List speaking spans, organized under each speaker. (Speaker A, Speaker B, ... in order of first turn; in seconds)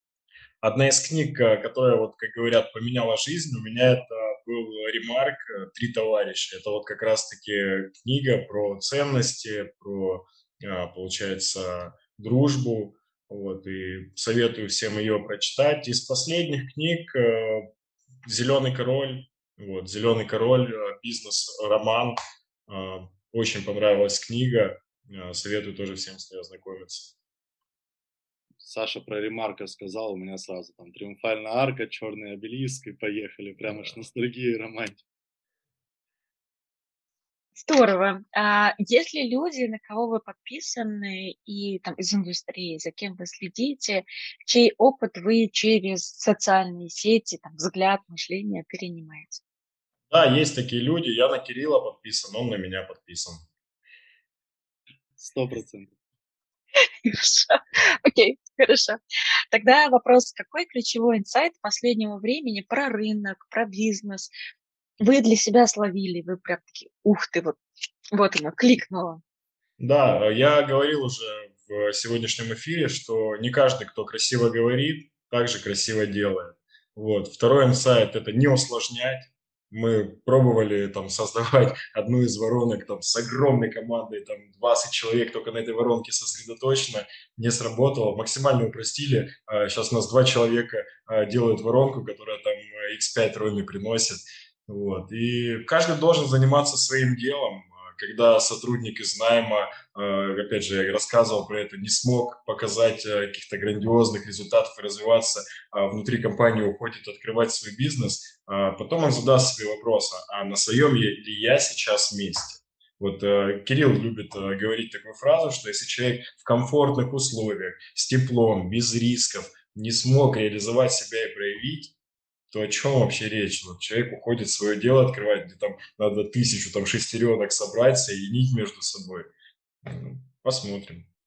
Speaker A: 0.6-17.7, 18.2-27.1, 50.1-53.4, 69.8-121.9, 122.5-129.3, 129.8-131.1
Speaker B: 28.6-35.0, 55.2-55.9
Speaker C: 37.6-49.4, 56.8-59.0, 59.5-64.3, 65.0-67.6, 68.1-69.2